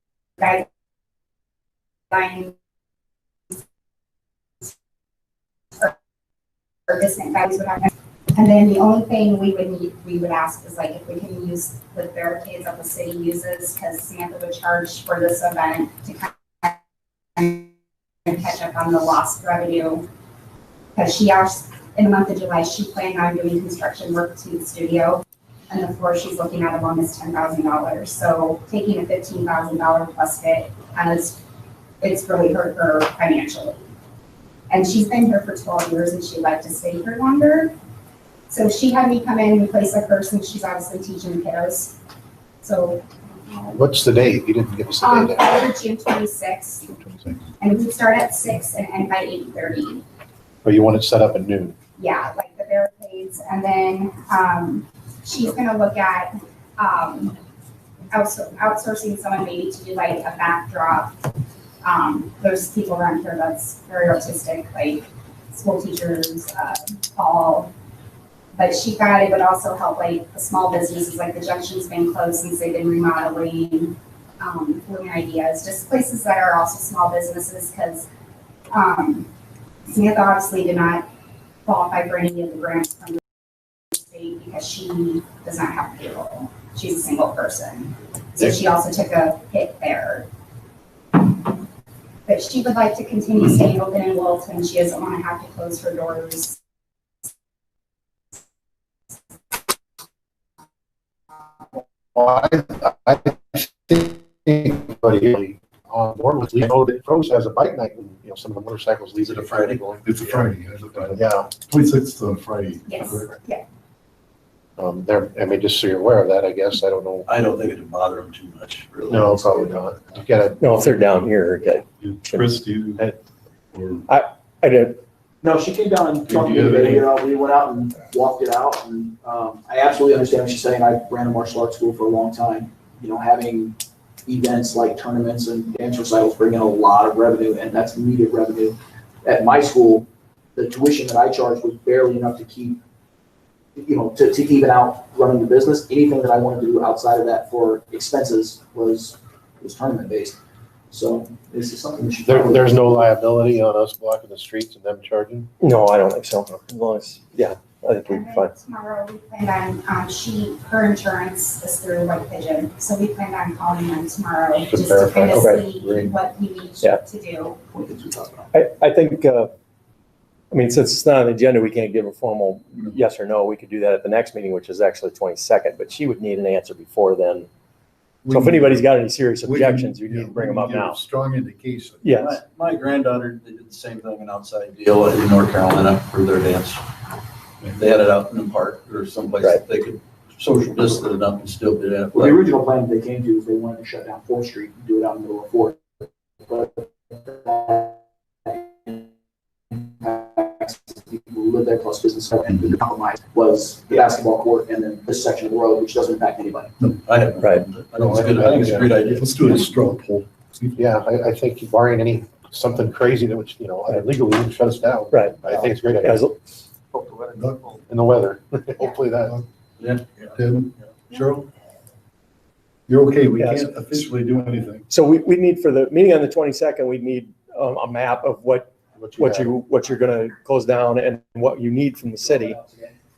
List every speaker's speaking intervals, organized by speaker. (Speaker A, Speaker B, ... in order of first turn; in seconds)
Speaker A: 0.4-0.7, 2.1-2.5, 6.9-16.8, 17.4-17.7, 18.2-20.1, 20.9-31.4, 32.0-33.9, 34.7-37.7, 38.5-42.0, 42.6-43.8, 45.0-46.9, 47.6-50.0, 52.0-57.4, 58.1-61.1, 61.8-67.7, 68.5-78.1, 78.7-79.3, 79.9-81.1, 81.6-83.2, 83.9-90.3, 92.2-96.6, 112.8-113.6, 158.1-167.6
Speaker B: 43.7-45.6, 50.6-51.7, 102.1-110.1, 111.2-111.5, 114.8-117.3, 119.1-120.9, 152.2-155.5, 164.6-166.1, 208.0-208.9, 210.8-216.2, 216.9-219.4, 228.9-229.5
Speaker C: 109.2-110.0, 117.3-119.9, 182.2-186.8, 187.7-192.4, 207.0-209.6, 219.8-220.3
Speaker D: 110.0-113.3, 122.0-123.1, 123.7-124.1, 126.3-127.0, 178.2-178.7, 179.4-182.4, 207.9-210.8, 217.3-217.7, 220.3-221.5, 222.9-224.8
Speaker E: 120.6-122.4, 124.1-125.0, 155.6-158.5, 165.3-165.6, 168.5-169.5, 170.5-177.5, 178.3-181.0, 182.0-182.4, 207.4-207.7, 215.1-215.4, 215.9-216.3, 223.4-224.0, 224.9-232.6
Speaker F: 125.4-142.8, 143.8-150.4, 150.9-152.8, 167.7-168.5, 192.1-199.1, 199.7-206.7, 232.2-232.9